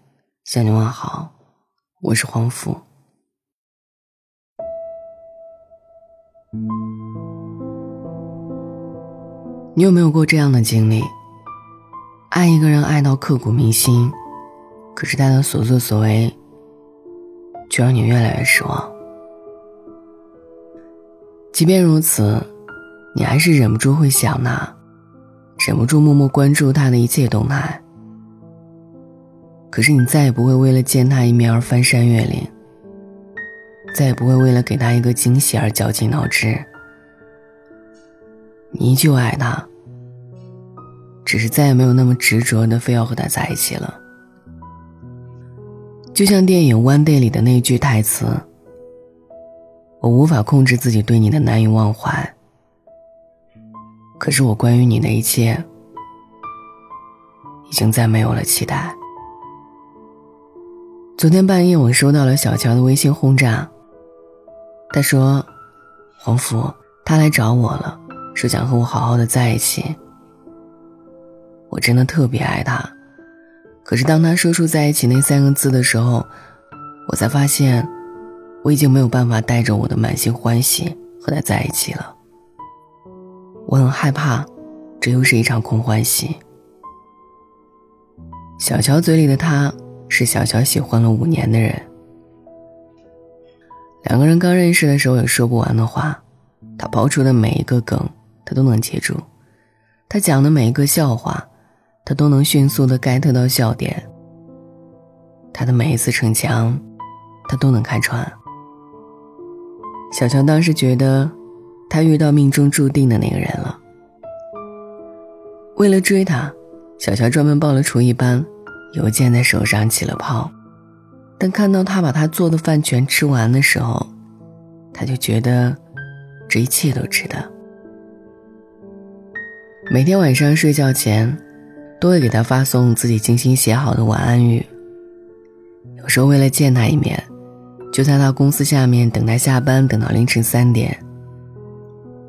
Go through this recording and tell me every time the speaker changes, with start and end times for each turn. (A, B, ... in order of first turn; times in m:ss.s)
0:00.4-0:01.3 A
0:02.0-0:02.8 A
0:09.7-0:11.1 A
0:12.3-0:14.2 A
0:14.9-0:16.4 A
0:17.7-0:18.9 A
0:21.5-0:22.5 A
0:23.1-0:24.8 A
0:25.6-0:27.8 A
0:29.7-0:32.5 A
0:33.9-0:36.7 A
0:38.7-0:39.7 A
0:41.2-0:44.0 A
0:46.1-0:48.4 A
0:50.0-0:52.3 A
0:54.2-0:55.6 A
0:57.7-0:59.0 A
1:01.2-1:03.7 A
1:04.9-1:05.5 A
1:06.2-1:10.0 A
1:11.7-1:12.9 A
1:13.8-1:16.3 A
1:17.0-1:17.9 A
1:18.6-1:22.2 A
1:23.7-1:26.4 A
1:28.6-1:31.9 A
1:34.0-1:36.2 A
1:36.8-1:39.2 A
1:40.1-1:41.5 A
1:42.0-1:44.1 A
1:45.5-1:46.8 A
1:47.5-1:48.4 A
1:50.1-1:51.4 A
1:51.9-1:53.8 A
1:55.8-2:00.5 A
2:01.4-2:04.1 A
2:04.9-2:05.8 A
2:06.5-2:07.5 A
2:09.9-2:11.4 A
2:12.0-2:14.7 A
2:16.0-2:17.3 A
2:17.9-2:21.0 A